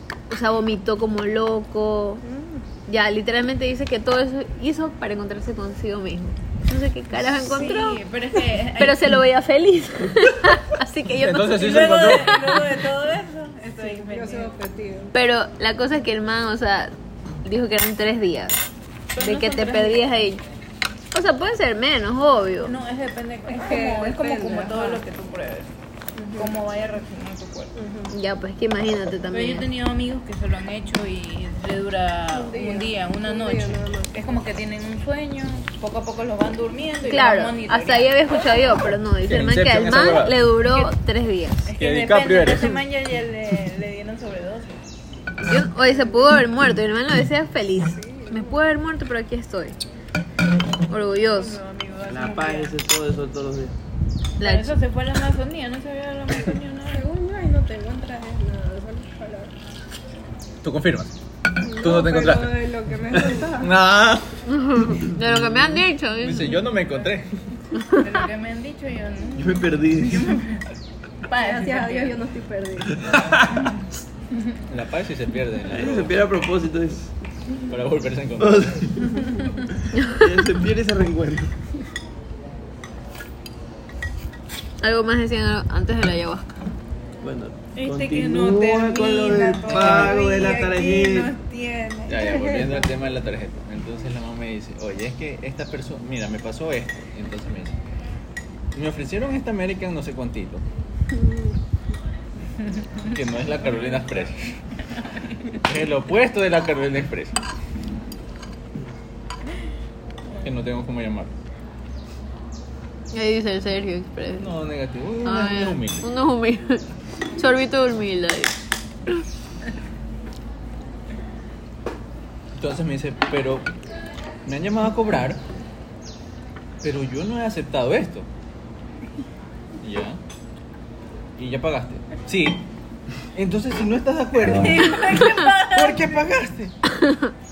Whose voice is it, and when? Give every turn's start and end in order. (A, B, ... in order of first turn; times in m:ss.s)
0:00.3-0:02.2 A
0:02.9-0:08.0 A
0:07.4-0:09.2 B
0:08.8-0:12.6 A
0:11.1-0:12.5 C
0:11.5-0:14.5 B
0:13.8-0:15.1 D
0:15.1-0:20.4 A
0:19.1-0:20.1 B
0:21.1-0:22.8 A
0:22.6-0:25.7 B
0:23.6-0:25.0 D
0:26.2-0:26.5 D
0:26.4-0:27.7 B
0:27.7-0:28.1 D
0:28.1-0:29.7 A
0:29.3-0:38.1 B
0:32.3-0:34.4 D
0:37.0-0:41.7 A
0:39.2-0:40.4 C
0:40.7-0:40.9 B
0:41.6-0:44.8 B
0:41.8-0:42.8 C
0:45.4-0:49.8 A
0:47.9-0:48.6 D
0:50.9-0:51.6 A
0:51.3-0:52.7 B
0:52.1-0:53.7 E
0:54.4-0:54.8 A
0:54.4-0:57.1 B
0:56.9-0:59.5 D
1:00.6-1:01.2 C
1:01.6-1:03.7 D
1:01.8-1:04.4 C
1:04.4-1:06.6 A
1:05.2-1:07.5 C
1:07.8-1:08.1 A
1:08.0-1:10.6 B
1:09.4-1:10.4 E
1:11.2-1:12.2 B
1:11.3-1:13.1 D
1:13.0-1:13.6 E
1:13.1-1:13.4 C
1:13.5-1:13.8 B
1:14.7-1:16.2 C
1:15.6-1:17.1 E
1:17.7-1:18.9 C
1:18.4-1:19.0 E
1:19.0-1:19.6 B
1:19.8-1:21.6 E
1:20.0-1:20.2 A
1:24.8-1:26.6 A
1:27.2-1:31.3 E
1:27.7-1:32.7 B
1:29.7-1:30.1 C
1:32.1-1:37.8 C
1:38.7-1:40.6 C
1:41.1-1:41.5 D
1:43.1-1:44.6 C
1:45.2-1:45.5 B
1:45.6-1:47.4 C
1:50.4-1:51.3 C
1:53.1-1:54.5 A
1:54.4-1:56.1 C
1:55.2-1:56.8 A
1:57.4-1:58.5 A
2:02.6-2:03.7 C
2:04.4-2:05.4 C
2:06.8-2:08.3 C
2:09.8-2:10.2 C
2:11.4-2:12.7 C
2:13.3-2:16.8 C
2:14.4-2:16.0 B
2:17.0-2:17.3 A